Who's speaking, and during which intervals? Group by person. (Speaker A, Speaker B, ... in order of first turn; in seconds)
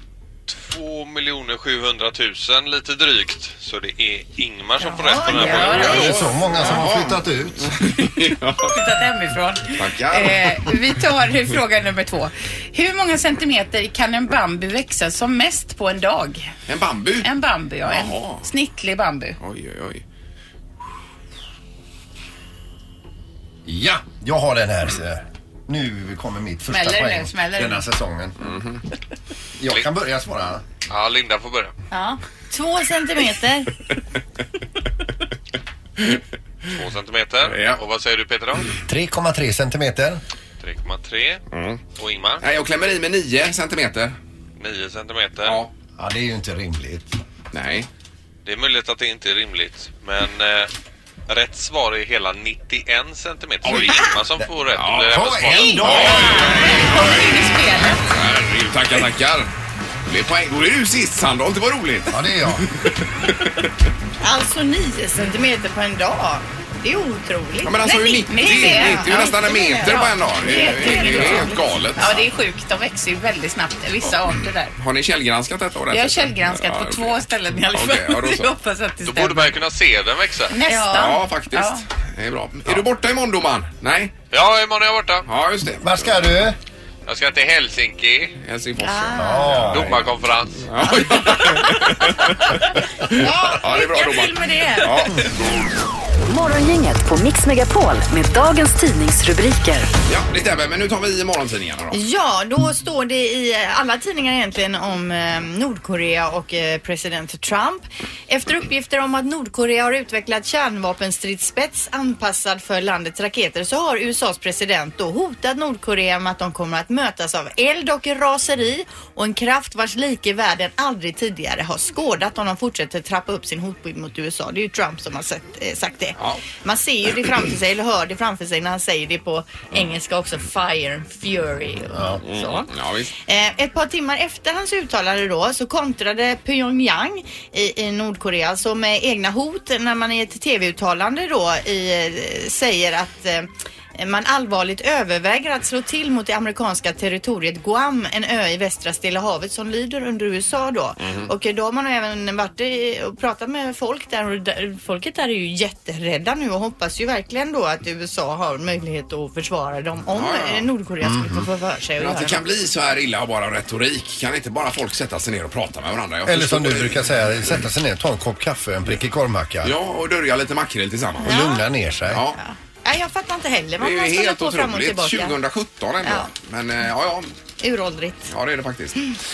Speaker A: 0.5-6.0, 30.9-31.7, 36.7-38.8, 40.6-41.4, 41.9-42.4, 44.6-45.6, 48.4-50.7, 51.3-56.2, 79.0-80.5, 84.3-85.3, 87.0-88.4, 89.7-90.9
Speaker B: 4.8-5.9, 31.9-33.8, 64.2-71.6, 88.8-89.5, 93.1-95.0, 101.9-132.7, 133.3-162.4, 171.2-171.6, 172.4-175.4, 176.0-176.3, 177.6-178.3
Speaker C: 5.1-6.2, 8.6-16.4, 17.2-19.4, 26.7-27.9, 56.0-58.0, 68.3-74.7, 75.9-79.6, 80.5-81.8, 94.2-94.7
Speaker D: 5.3-8.8, 9.7-10.7, 16.7-17.3, 17.8-18.5, 19.4-20.0, 28.4-28.8, 37.4-37.8, 41.5-41.8, 42.4-44.1, 45.4-45.7, 47.5-47.9, 53.6-54.1, 54.7-59.5, 60.0-63.7, 67.6-72.2, 74.1-78.5, 80.9-84.2, 85.2-86.2, 88.4-95.3, 100.1-102.0, 126.2-126.4, 132.2-133.1, 151.0-151.3, 160.1-160.7, 162.0-167.1, 169.6-171.4, 172.1-172.4, 173.8-177.3, 178.3-179.1
Speaker E: 5.6-7.8, 23.6-28.4, 29.6-30.6, 38.8-40.2, 46.0-47.1, 55.0-56.6, 62.1-62.7, 85.8-86.5, 89.2-90.0, 131.9-132.2, 161.0-161.4, 166.3-169.7, 171.2-172.2
Speaker F: 96.3-99.9